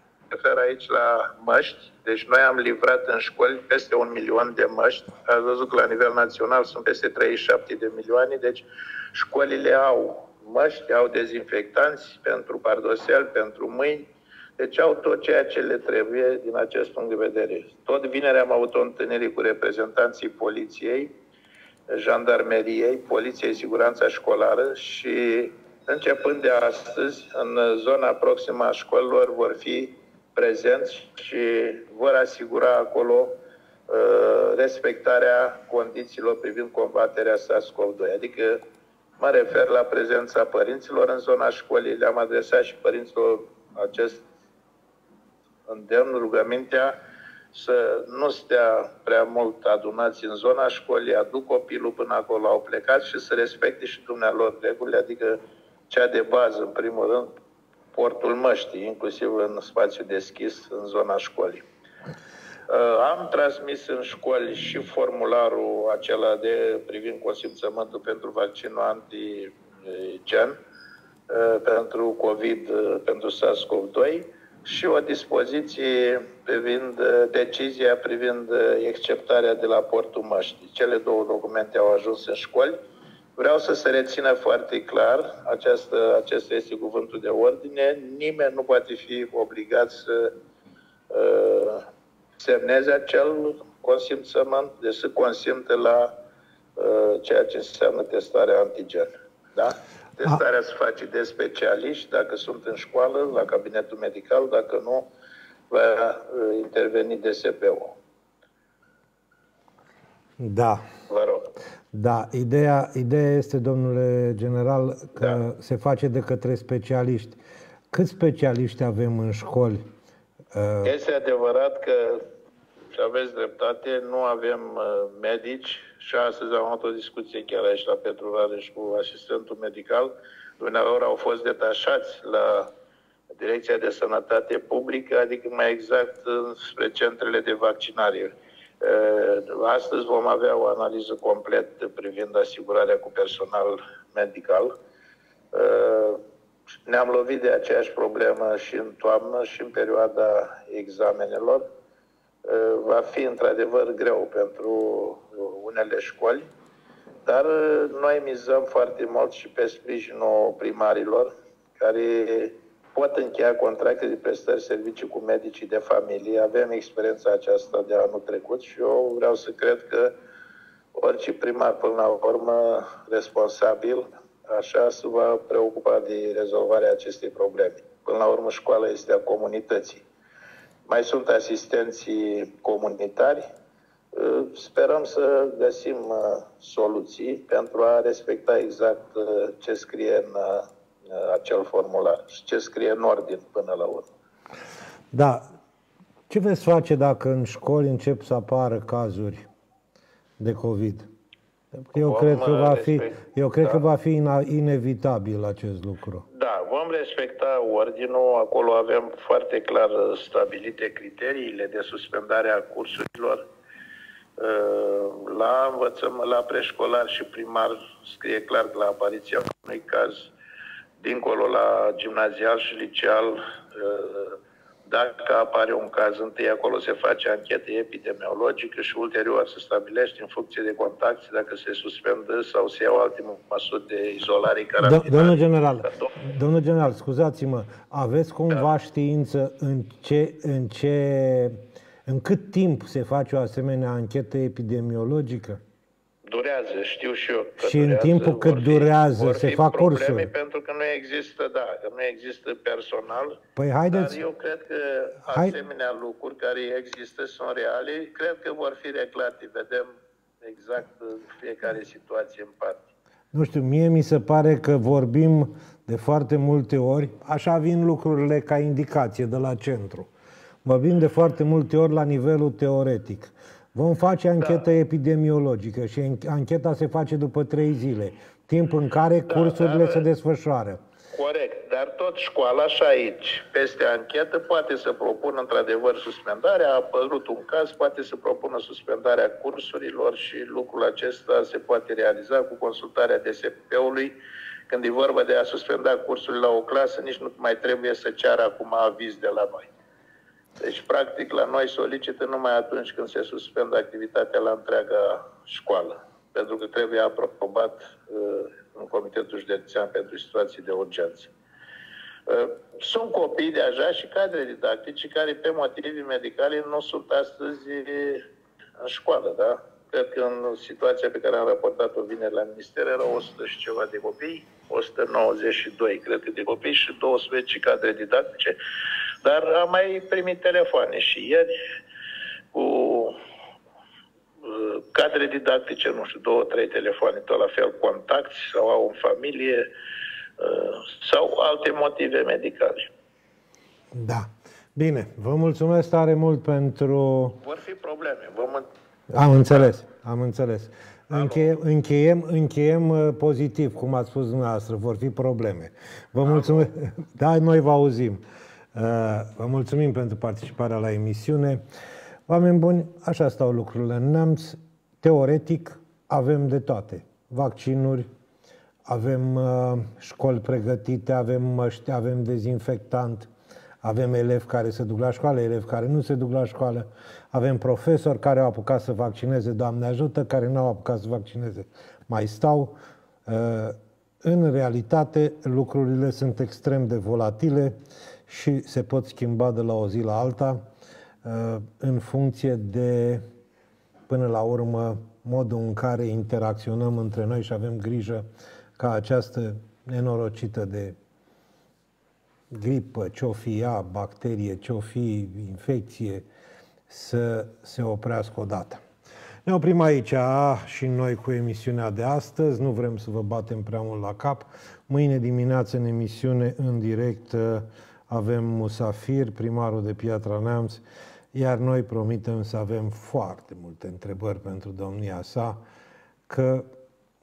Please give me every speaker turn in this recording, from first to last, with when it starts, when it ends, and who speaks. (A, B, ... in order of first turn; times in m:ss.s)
0:00.3-0:21.1 A
0:21.9-0:33.4 A
0:33.9-0:38.6 A
0:39.2-0:44.2 A
0:45.7-0:47.0 A
0:47.5-0:55.4 A
0:55.9-0:57.3 A
0:57.9-1:01.6 A
1:02.7-1:10.6 A
1:11.3-1:22.8 A
1:23.4-1:30.3 A
1:31.1-1:31.8 A
1:32.4-1:36.1 A
1:36.8-1:45.1 A
1:45.7-1:48.0 A
1:50.4-1:50.8 B
1:51.1-1:51.5 A
1:51.9-1:57.4 B
1:57.9-1:59.8 B
2:00.5-2:00.9 B
2:00.8-2:02.2 A
2:02.9-2:12.7 A
2:13.4-2:24.7 A
2:25.5-2:26.2 A
2:26.9-2:31.6 A
2:32.4-2:36.5 A
2:37.2-2:50.1 A
2:51.0-3:00.0 A
3:00.9-3:03.4 A
3:04.1-3:14.1 A
3:15.1-3:15.4 B
3:16.3-3:19.4 B
3:20.4-3:21.1 B
3:21.8-3:26.2 B
3:21.9-3:23.8 A
3:26.3-3:33.4 A
3:34.4-3:40.3 A
3:41.0-3:56.1 A
3:54.8-4:05.6 B
4:06.2-4:13.4 A
4:07.6-4:10.3 B
4:13.6-4:14.2 B
4:13.9-4:19.9 A
4:15.3-4:15.5 B
4:20.4-4:22.8 A
4:23.3-4:30.1 B
4:30.6-4:40.8 B
4:39.3-4:40.0 A
4:41.1-4:54.2 A
4:54.7-4:59.7 A
5:00.6-5:11.3 A
5:12.3-5:18.2 A
5:18.8-5:28.6 A
5:29.2-5:31.5 A
5:32.5-5:33.2 A
5:34.4-5:39.7 A
5:40.4-5:42.9 A
5:43.9-5:47.4 B
5:47.4-5:48.7 A
5:49.1-5:58.2 B
5:51.1-5:51.4 A
5:56.2-5:56.7 A
5:58.7-6:01.6 B
6:02.3-6:08.1 B
6:08.8-6:13.3 B
6:13.8-6:22.7 B
6:23.2-6:27.8 B
6:28.3-6:30.6 B
6:31.2-6:33.2 B
6:34.1-6:38.3 B
6:38.8-6:41.0 B
6:42.5-6:46.2 B
6:46.9-6:48.8 B
6:49.4-7:05.6 B
7:06.3-7:06.7 B